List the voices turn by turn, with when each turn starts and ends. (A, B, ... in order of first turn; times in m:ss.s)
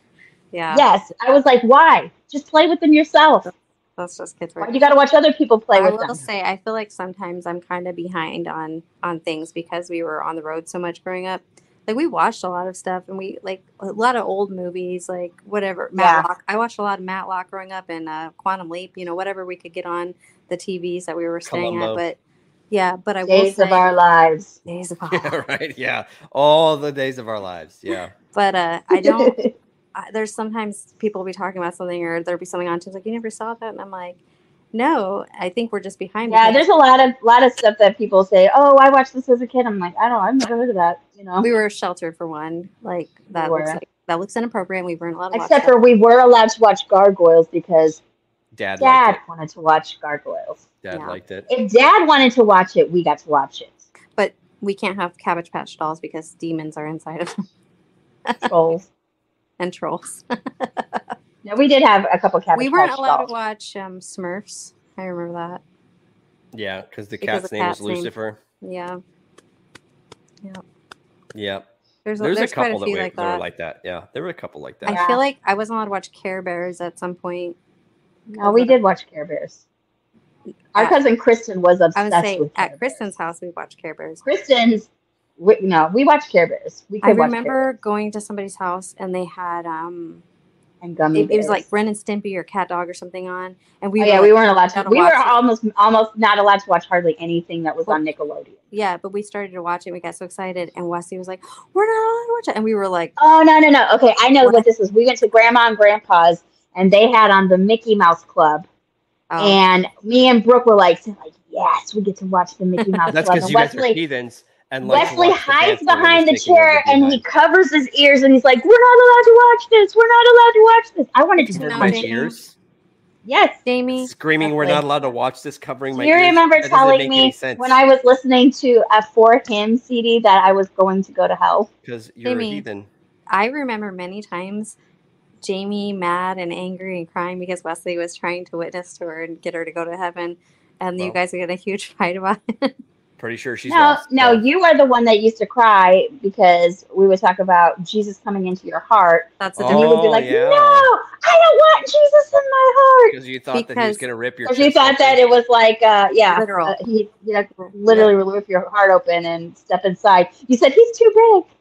0:00.5-0:00.8 A
0:00.7-0:03.5 B
0:03.5-0:04.8 A
0:04.6-0:06.2 B
0:05.8-0:22.2 A
0:16.0-0:16.3 B
0:21.5-0:22.0 C
0:22.7-0:23.8 A
0:23.3-0:24.6 B
0:24.7-0:25.4 A
0:25.1-0:28.1 C
0:28.3-0:29.4 A
0:28.9-0:29.5 B
0:30.0-0:34.2 A
0:34.7-0:36.7 A
0:36.3-0:41.5 B
0:41.4-0:45.7 A
0:43.3-0:43.8 B
0:45.3-0:48.0 B
0:48.6-0:49.2 C
0:48.8-0:50.6 B
0:50.8-0:51.5 C
0:50.9-0:51.2 A
0:51.5-0:53.8 B
0:54.2-0:57.4 A
0:58.3-0:58.5 A
0:58.5-0:58.9 B
0:59.6-1:01.1 A
1:01.4-1:03.3 B
1:02.6-1:05.6 A
1:06.5-1:08.4 C
1:07.2-1:08.1 A
1:08.6-1:09.0 A
1:11.3-1:11.7 C
1:12.0-1:13.4 A
1:12.2-1:15.0 C
1:14.8-1:17.6 A
1:14.9-1:15.2 B
1:18.3-1:19.6 B
1:18.3-1:18.8 A
1:20.7-1:23.0 B
1:22.0-1:24.2 A
1:24.2-1:27.6 B
1:27.0-1:30.2 A
1:30.8-1:31.6 B
1:31.2-1:35.4 A
1:34.0-1:38.6 B
1:38.7-1:43.2 A
1:43.2-1:48.7 B
1:44.4-1:44.7 A
1:49.3-1:49.6 A
1:49.4-1:54.0 B
1:52.8-1:53.2 A
1:53.1-1:57.2 C
1:54.8-2:02.1 B
2:01.4-2:02.4 A
2:01.7-2:02.6 C
2:03.2-2:03.6 B
2:03.6-2:04.1 A
2:04.0-2:07.8 C
2:04.4-2:04.8 B
2:05.9-2:11.7 B
2:11.8-2:12.9 C
2:12.2-2:12.6 A
2:13.3-2:14.8 A
2:15.4-2:22.7 A
2:23.2-2:24.4 C
2:23.7-2:33.2 B
2:29.4-2:30.0 A
2:29.6-2:30.9 C
2:33.1-2:35.2 C
2:33.5-2:34.0 A
2:34.4-2:41.5 B
2:36.2-2:36.8 A
2:37.9-2:38.2 C